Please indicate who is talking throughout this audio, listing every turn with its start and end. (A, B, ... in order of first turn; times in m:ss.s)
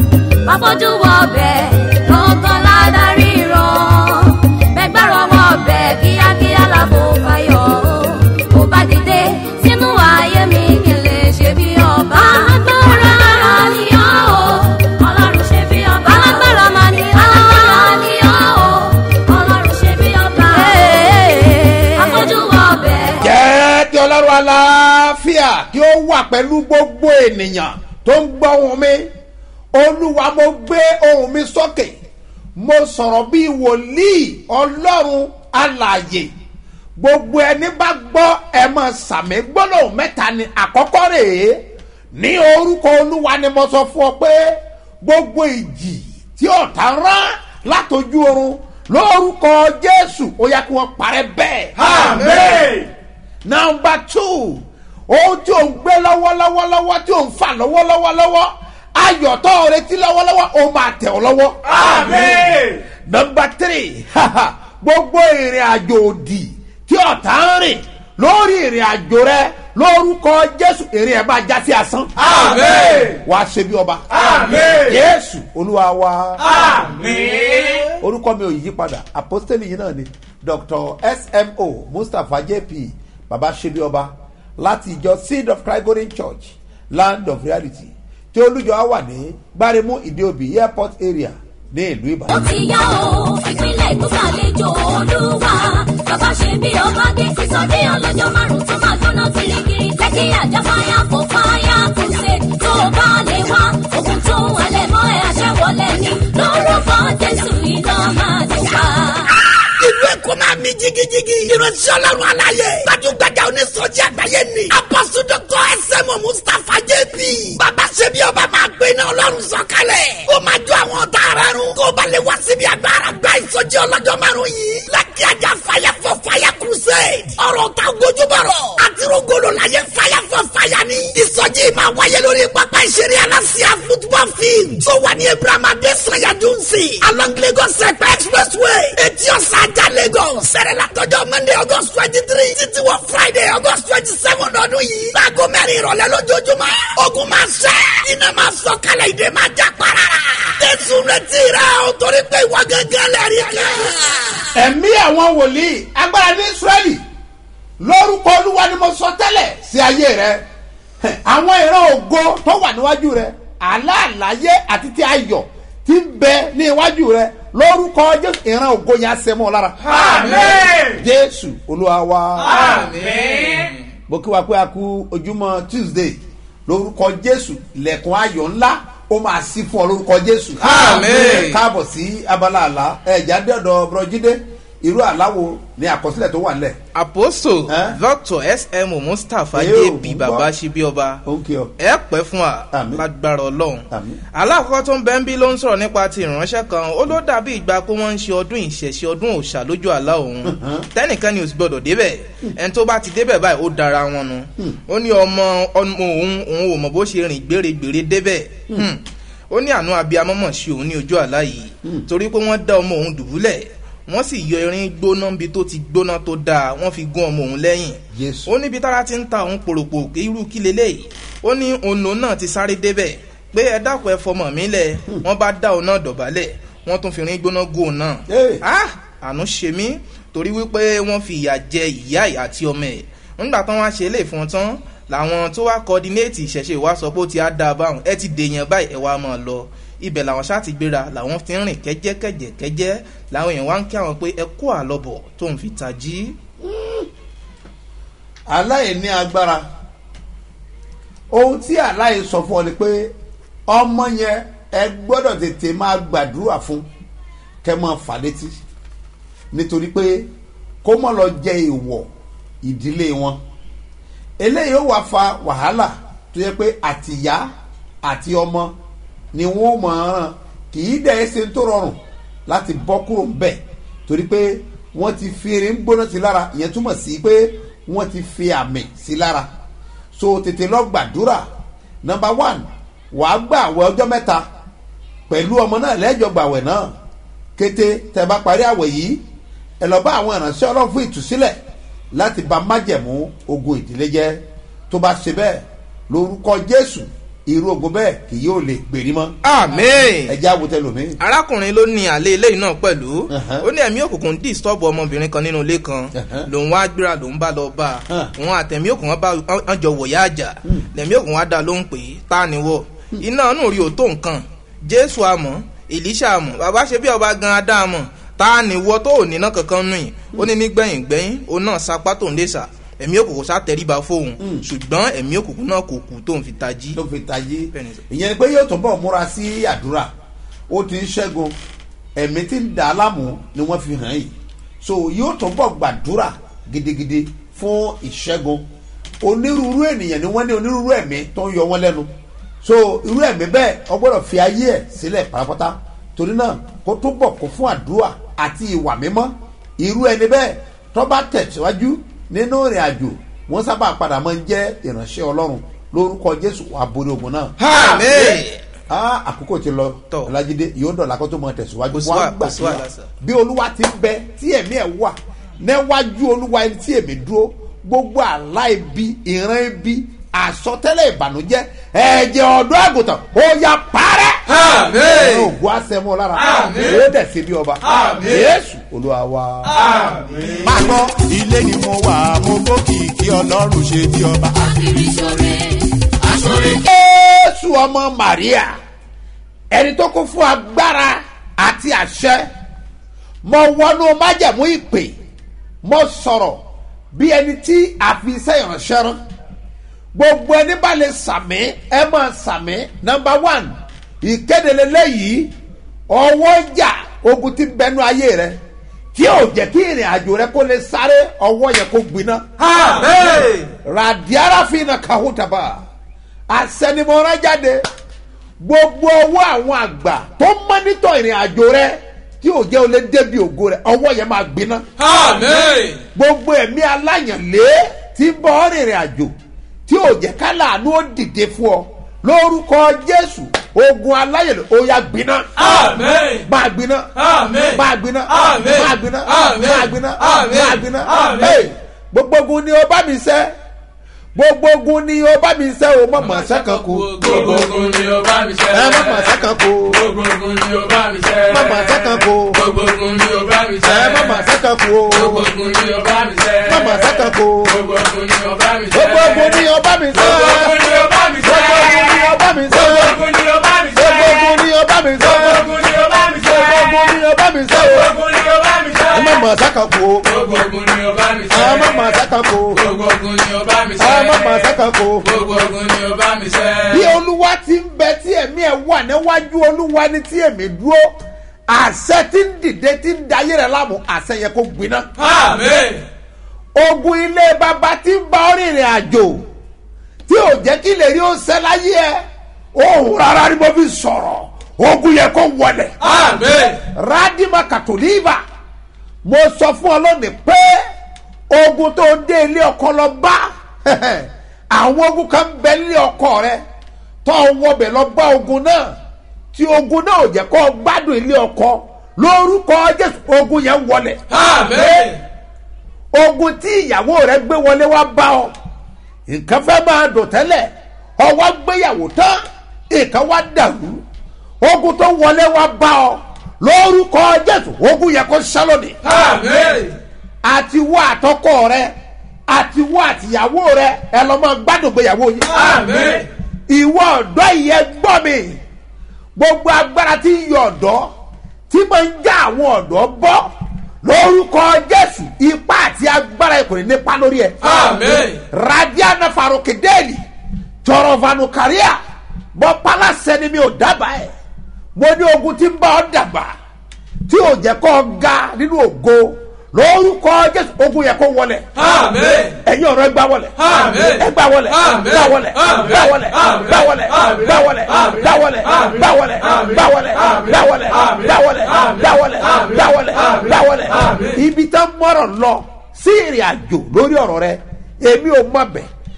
0:00.5-0:23.3 A
0:23.2-0:29.1 B
0:29.7-0:32.0 B
0:32.6-0:36.3 B
0:37.0-0:51.8 B
0:51.8-0:52.9 C
0:53.4-1:02.2 B
1:01.7-1:02.8 C
1:03.0-1:12.1 B
1:12.2-1:13.2 C
1:13.2-1:14.1 B
1:14.1-1:14.9 C
1:14.7-1:16.5 B
1:16.4-1:17.9 C
1:18.0-1:32.3 B
1:32.3-1:49.3 A
1:49.6-2:34.5 D
2:34.5-2:37.0 B
2:37.8-2:40.4 B
2:41.0-2:49.9 B
2:49.9-2:50.9 C
2:50.0-2:50.6 E
2:50.9-2:52.7 B
2:52.5-2:53.7 C
2:52.5-2:53.8 E
2:54.1-3:06.8 B
3:00.6-3:01.6 E
3:07.0-3:11.2 E
3:07.7-3:08.0 B
3:09.5-3:10.5 B
3:11.2-3:11.7 B
3:11.8-4:06.4 E
3:12.7-3:13.0 B
3:13.9-3:14.2 B
3:20.4-3:20.8 B
3:38.1-3:38.5 B
3:48.3-3:48.6 B
4:06.6-4:07.1 B
4:08.5-4:09.7 B
4:11.3-4:13.1 B
4:13.7-4:16.9 B
4:17.6-4:18.6 B
4:19.5-4:20.3 B
4:20.8-4:22.1 B
4:22.6-4:23.4 B
4:24.4-4:27.5 B
4:28.0-4:28.7 B
4:29.3-4:39.5 B
4:40.1-4:41.5 B
4:42.0-4:44.5 B
4:45.3-4:46.9 B
4:47.6-4:49.2 B
4:49.8-4:51.6 B
4:52.1-4:59.4 B
4:59.4-5:00.4 E
5:00.3-5:01.2 B
5:01.2-5:27.0 E
5:03.3-5:03.7 B
5:06.2-5:06.5 B
5:26.9-5:30.1 B
5:27.7-5:28.0 E
5:30.7-5:31.6 B
5:32.2-5:38.6 B
5:39.2-5:42.1 B
5:42.6-5:57.5 B
5:57.6-5:58.6 E
5:58.9-6:14.4 B
6:01.9-6:03.1 E
6:14.6-6:15.1 C
6:15.1-6:19.9 B
6:16.5-6:16.8 C
6:17.9-6:18.4 C
6:19.7-6:20.6 C
6:20.6-6:25.6 F
6:26.2-6:26.8 F
6:26.7-6:28.8 B
6:29.7-6:32.5 B
6:33.4-6:35.2 B
6:35.8-6:36.6 B
6:37.1-6:39.2 B
6:40.1-6:45.5 B
6:46.1-6:48.6 B
6:49.1-6:52.4 B
6:52.8-6:53.6 E
6:52.8-6:53.2 C
6:53.8-6:55.8 B
6:56.5-6:57.8 B
6:58.6-7:04.8 B
7:05.0-7:06.0 E
7:06.2-7:09.3 B
7:09.9-7:15.8 B
7:15.7-7:16.3 C
7:16.5-7:17.1 B
7:17.4-7:17.7 C
7:17.7-7:23.5 B
7:21.0-7:21.6 C
7:24.4-7:27.6 B
7:27.0-7:29.3 C
7:28.7-7:30.0 B
7:29.9-7:34.4 C
7:31.5-7:32.6 B
7:33.8-7:35.5 B
7:35.1-7:39.6 C
7:36.7-7:37.8 B
7:38.9-7:43.2 B
7:40.2-7:44.6 C
7:43.9-7:45.8 B
7:45.2-7:47.0 C
7:46.4-7:48.2 B
7:47.7-7:49.4 C
7:49.1-7:50.3 B
7:50.2-7:52.0 C
7:51.5-7:52.8 B
7:52.8-7:54.7 C
7:54.0-7:55.3 B
7:55.2-7:57.1 C
7:56.9-8:01.2 B
8:01.7-8:05.1 B
8:05.2-8:06.0 C
8:06.8-8:09.4 B
8:10.3-8:12.2 B
8:12.8-8:16.0 B
8:16.0-8:16.6 C
8:16.9-8:18.4 B
8:19.2-8:20.8 B
8:21.5-8:26.6 B
8:27.2-8:29.0 B
8:29.5-8:34.2 B
8:34.7-8:35.1 B
8:36.1-8:38.5 B
8:39.3-8:44.0 B
8:44.6-8:49.0 B
8:49.1-8:49.9 C
8:50.4-8:51.9 B
8:52.5-8:55.7 B
8:55.5-8:56.2 C
8:56.7-8:58.6 B
8:59.4-9:01.1 B
9:01.7-9:03.5 B
9:04.0-9:07.6 B
9:07.6-9:08.4 E
9:08.5-9:10.2 B
9:10.8-9:12.0 B
9:12.6-9:14.3 B
9:15.0-9:16.5 B
9:17.3-9:21.7 B
9:22.0-9:22.4 C
9:22.6-9:38.9 B
9:34.0-9:34.3 C